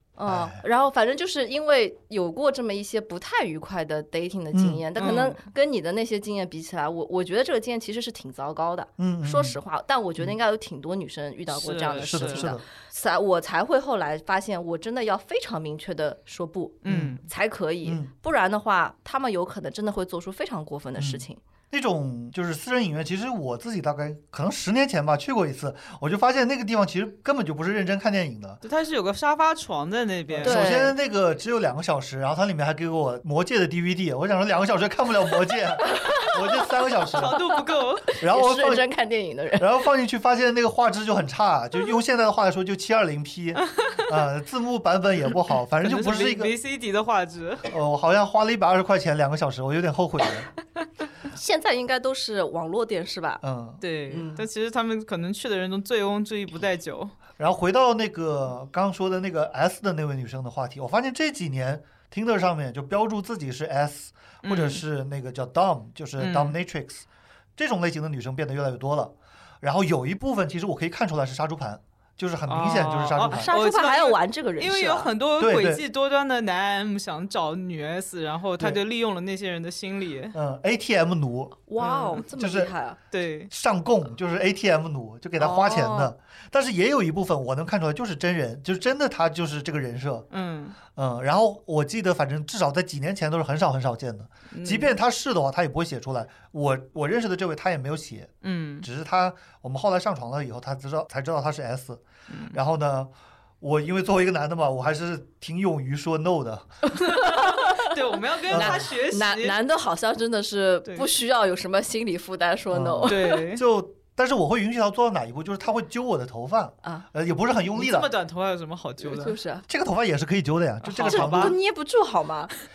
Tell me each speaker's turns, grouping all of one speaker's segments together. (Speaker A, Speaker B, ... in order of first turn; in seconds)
Speaker A: 0.2-21.4, 30.4-30.9, 35.8-39.7, 51.3-53.4, 54.1-54.5, 73.3-75.1, 81.7-83.0, 85.4-86.1, 106.9-108.0, 108.5-113.5, 119.0-119.7, 121.0-122.5
Speaker B: 0.3-0.6, 4.5-4.8, 9.0-9.6, 12.0-12.6, 16.9-17.2, 17.8-18.1, 21.0-28.6, 30.3-37.3, 38.2-38.8, 39.6-46.5, 47.6-50.5, 53.4-53.8, 57.4-67.0, 67.6-73.5, 75.4-75.8, 80.3-81.6, 82.3-82.7, 83.5-90.3, 90.9-107.0, 108.5-108.9, 112.7-118.1, 119.7-121.6
Speaker C: 5.0-5.4, 11.5-12.5, 16.8-17.2, 28.6-30.8, 37.1-38.0, 43.6-44.1, 45.8-47.6, 53.8-57.1, 64.4-64.8, 66.2-66.5, 72.5-80.3, 81.8-82.2, 83.1-83.5, 90.3-90.8, 94.5-94.9, 98.4-98.8, 102.3-102.5, 107.1-109.5, 113.0-113.6, 117.7-119.4, 120.8-121.5